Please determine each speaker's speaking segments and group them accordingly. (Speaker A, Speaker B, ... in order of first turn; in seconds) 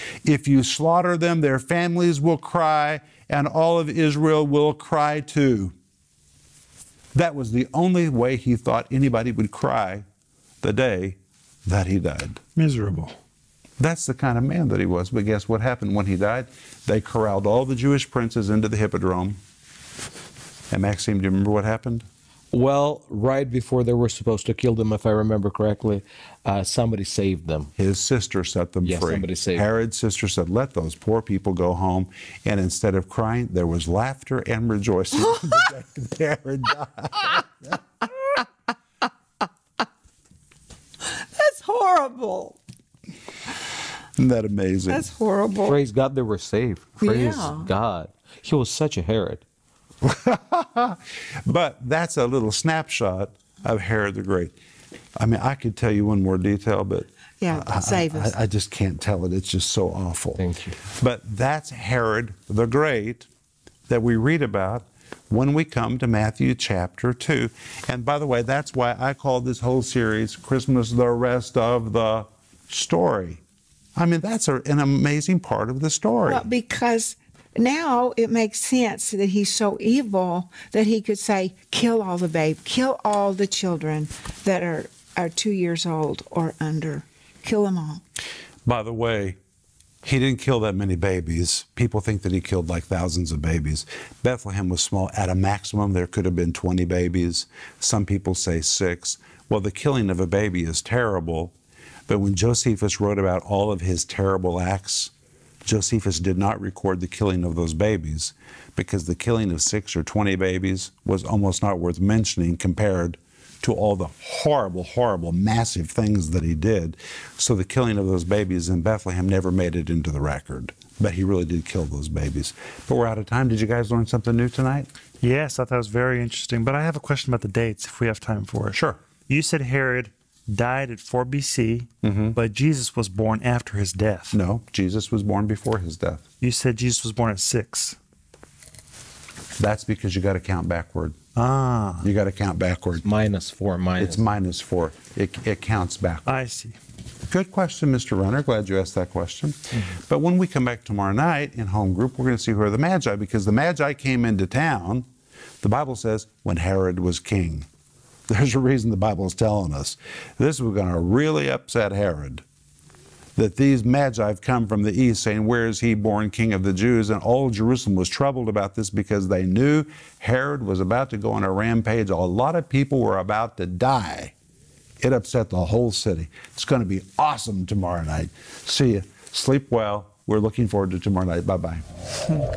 Speaker A: 0.2-5.7, 7.1-10.1, 10.6-12.4, 13.8-19.4, 20.7-22.0, 27.8-37.8, 44.2-45.1, 50.0-54.5, 55.2-63.3, 63.9-73.4, 74.0-76.5, 88.7-89.4, 90.0-101.5, 102.1-105.1, 105.6-124.9, 128.7-129.0, 132.0-132.4, 134.3-136.2, 139.6-141.2, 142.0-143.0, 144.0-146.4, 147.3-155.1, 155.6-157.7, 158.3-162.4, 163.4-174.3, 175.0-181.8
Speaker B: 12.6-13.2, 125.2-134.4, 136.4-138.0, 141.3-142.1, 146.3-146.8
Speaker C: 22.5-27.7, 28.8-29.6, 45.6-49.4, 60.4-60.8, 143.0-144.2
Speaker D: 41.0-42.6, 44.9-45.8, 47.0-47.7, 57.4-58.4, 76.3-88.0